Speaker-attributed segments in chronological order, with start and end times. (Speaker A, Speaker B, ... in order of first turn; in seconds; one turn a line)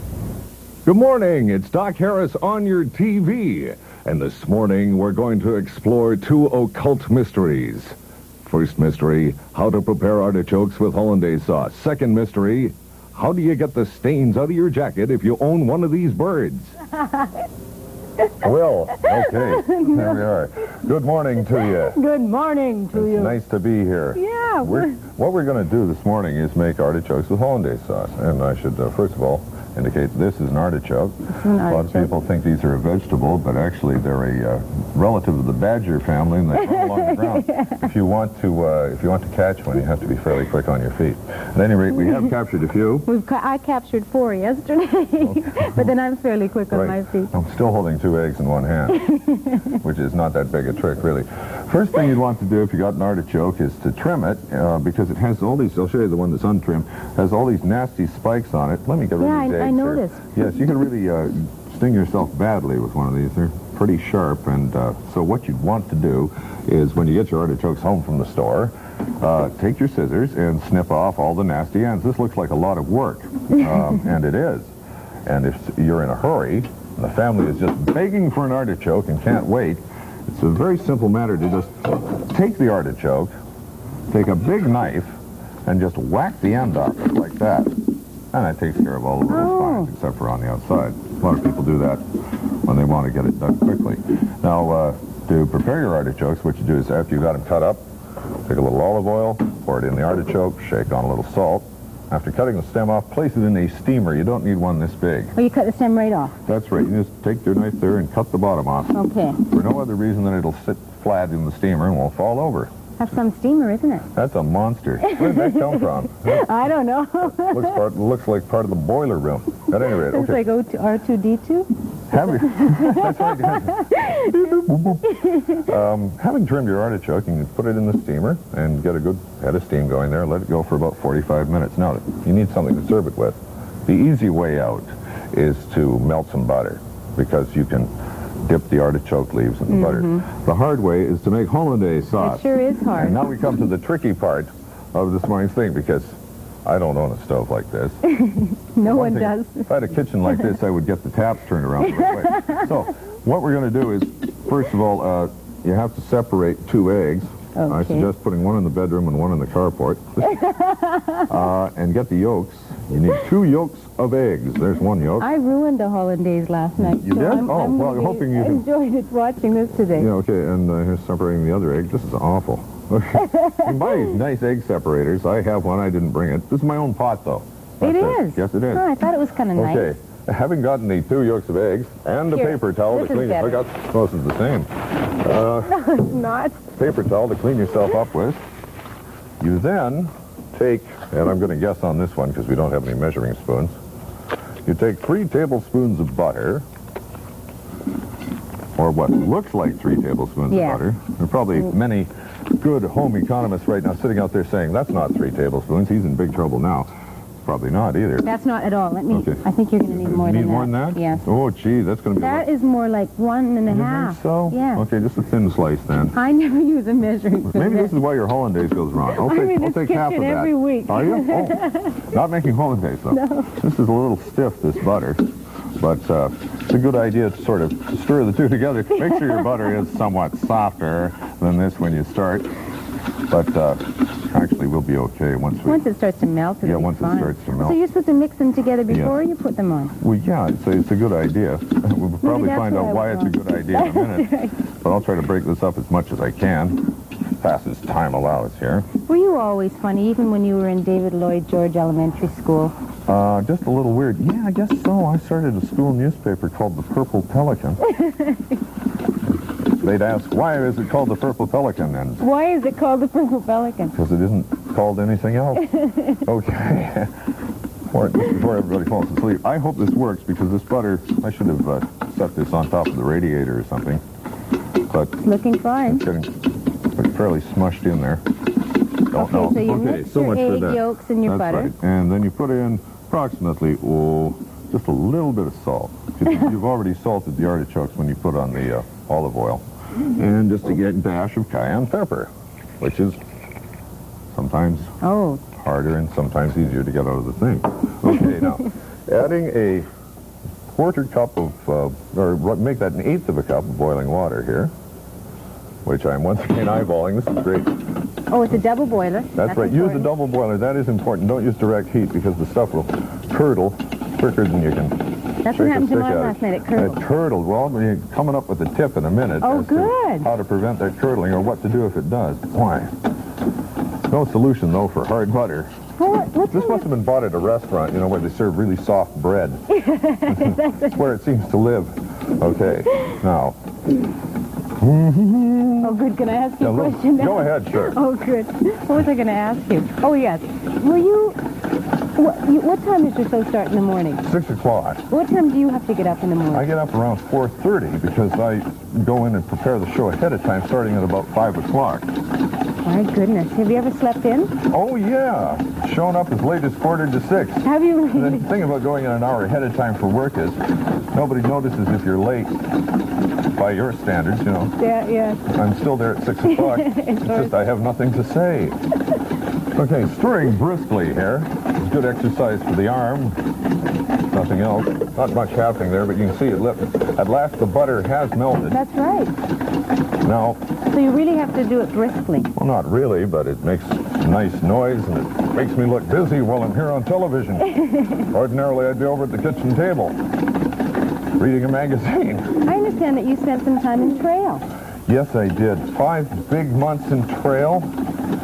Speaker A: 0.8-16.8
Speaker A: 18.4-22.0
Speaker B: 18.9-20.2
Speaker B: 21.4-23.3
Speaker A: 22.9-43.1
Speaker B: 24.1-25.0
Speaker B: 31.3-32.1
Speaker B: 36.5-37.8
Speaker B: 43.0-47.3
Speaker A: 45.2-45.9
Speaker A: 46.7-49.0
Speaker B: 48.9-49.7
Speaker A: 49.8-74.7
Speaker B: 59.2-60.3
Speaker A: 75.2-83.3
Speaker A: 84.1-87.7
Speaker A: 88.3-92.0
Speaker B: 89.3-89.9
Speaker A: 92.7-97.8
Speaker A: 98.5-105.3
Speaker B: 105.3-106.3
Speaker A: 106.5-112.7
Speaker B: 108.9-109.4
Speaker B: 113.0-114.0
Speaker A: 114.1-116.5
Speaker B: 115.0-117.8
Speaker A: 117.2-120.4
Speaker B: 120.0-121.7
Speaker A: 122.1-137.9
Speaker B: 122.5-124.2
Speaker A: 138.4-148.0
Speaker B: 139.7-140.2
Speaker B: 142.2-143.3
Speaker B: 148.1-149.7
Speaker A: 148.8-160.4
Speaker B: 151.9-152.5
Speaker B: 157.5-158.1
Speaker B: 160.3-161.2
Speaker A: 161.3-165.3
Speaker B: 165.2-170.1
Speaker A: 166.8-168.7
Speaker A: 169.9-178.9
Speaker B: 177.8-179.9
Speaker A: 179.5-185.9
Speaker B: 182.3-183.6
Speaker B: 185.7-186.6
Speaker A: 186.8-188.4
Speaker A: 189.4-193.7
Speaker A: 194.6-196.6
Speaker A: 198.8-206.9
Speaker B: 200.5-200.8
Speaker A: 207.4-208.3
Speaker B: 208.2-211.2
Speaker A: 209.1-212.5
Speaker B: 212.2-214.8
Speaker A: 213.7-216.1
Speaker B: 216.1-217.9
Speaker A: 217.5-225.2
Speaker B: 219.1-222.1
Speaker B: 223.1-223.5
Speaker A: 225.8-232.5
Speaker A: 233.3-235.8
Speaker B: 235.6-239.9
Speaker A: 236.6-237.8
Speaker A: 238.9-239.2
Speaker A: 240.0-246.8
Speaker B: 242.2-244.5
Speaker A: 247.4-248.9
Speaker B: 249.1-252.7
Speaker A: 253.1-257.8
Speaker A: 259.8-262.2
Speaker B: 262.2-263.9
Speaker A: 263.9-267.1
Speaker A: 267.9-274.0
Speaker A: 274.9-275.1
Speaker B: 275.2-276.0
Speaker A: 275.9-276.3
Speaker A: 276.9-278.2
Speaker A: 279.1-293.2
Speaker B: 279.1-281.7
Speaker A: 294.3-294.9
Speaker B: 295.0-295.5
Speaker A: 295.6-299.9
Speaker A: 300.7-304.7
Speaker A: 305.8-307.7
Speaker B: 308.3-310.1
Speaker A: 309.4-314.9
Speaker B: 315.4-317.0
Speaker A: 315.5-322.9
Speaker B: 319.4-320.3
Speaker A: 324.1-325.7
Speaker B: 326.0-326.9
Speaker A: 326.5-329.6
Speaker B: 329.7-330.9
Speaker A: 330.3-333.6
Speaker A: 334.8-336.0
Speaker B: 335.8-341.4
Speaker A: 336.6-338.0
Speaker B: 342.1-344.2
Speaker A: 344.2-345.0
Speaker B: 345.1-346.7
Speaker A: 346.5-352.1
Speaker B: 352.8-354.5
Speaker A: 354.7-360.6
Speaker B: 357.6-358.5
Speaker A: 361.1-362.5
Speaker A: 363.6-364.7
Speaker B: 364.8-365.4
Speaker A: 365.5-368.7
Speaker B: 366.4-367.6
Speaker A: 369.7-373.3
Speaker A: 374.3-378.8
Speaker B: 378.7-379.3
Speaker A: 380.2-380.6
Speaker B: 380.9-382.5
Speaker A: 382.6-390.2
Speaker A: 391.4-392.6
Speaker B: 392.6-394.6
Speaker A: 395.1-397.9